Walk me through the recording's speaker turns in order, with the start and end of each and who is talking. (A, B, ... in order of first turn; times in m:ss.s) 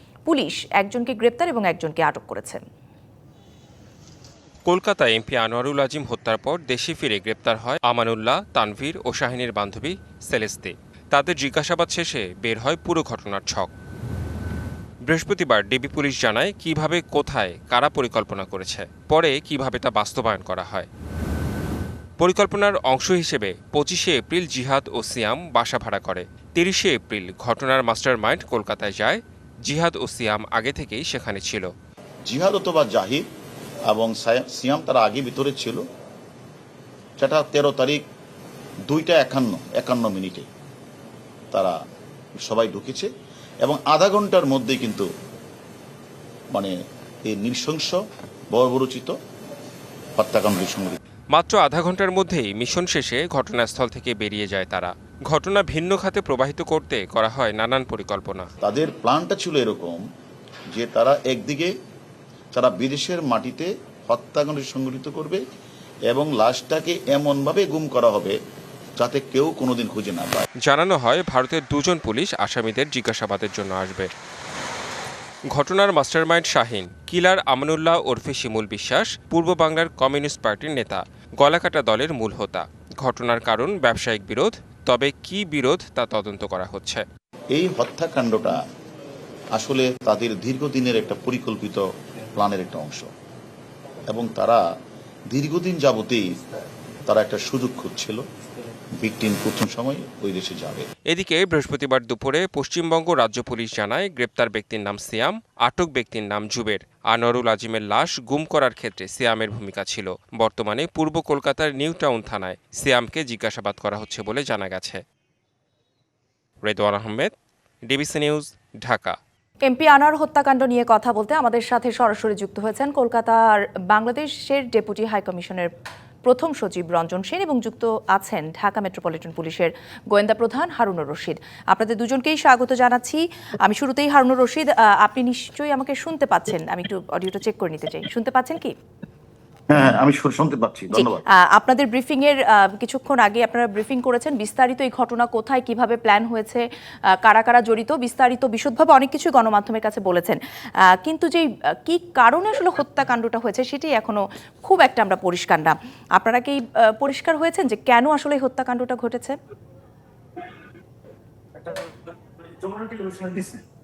0:00.3-0:02.6 A
0:04.7-0:13.7 B
0:15.1-0:20.9 B
0:22.2-0:31.7 B
0:32.3-0:33.2 C
0:33.9-0:35.8 C
0:37.2-0:38.0 C
0:38.9-0:40.4 C
0:42.5-0:43.1 C
0:43.6-0:45.1 C
0:47.3-0:48.0 C
0:48.5-0:49.1 C
0:50.2-0:51.0 C
0:51.3-0:58.5 B
0:58.6-1:00.0 C
1:00.7-1:01.7 C
1:02.5-1:05.4 C
1:06.1-1:08.4 C
1:09.0-1:10.4 C
1:10.6-1:14.1 B
1:15.5-1:27.0 B
1:27.5-1:28.6 C
1:29.6-1:33.1 C
1:34.1-1:34.6 C
1:35.3-1:36.2 C
1:37.1-1:38.2 C
1:39.0-1:40.8 C
1:41.1-1:55.0 B
1:56.6-1:57.3 B
1:57.9-1:59.2 B
1:59.6-2:05.7 A
2:06.2-2:18.7 A
2:19.7-2:21.2 C
2:20.9-2:26.7 A
2:27.2-2:30.4 A
2:31.0-2:39.4 A
2:42.6-2:43.6 C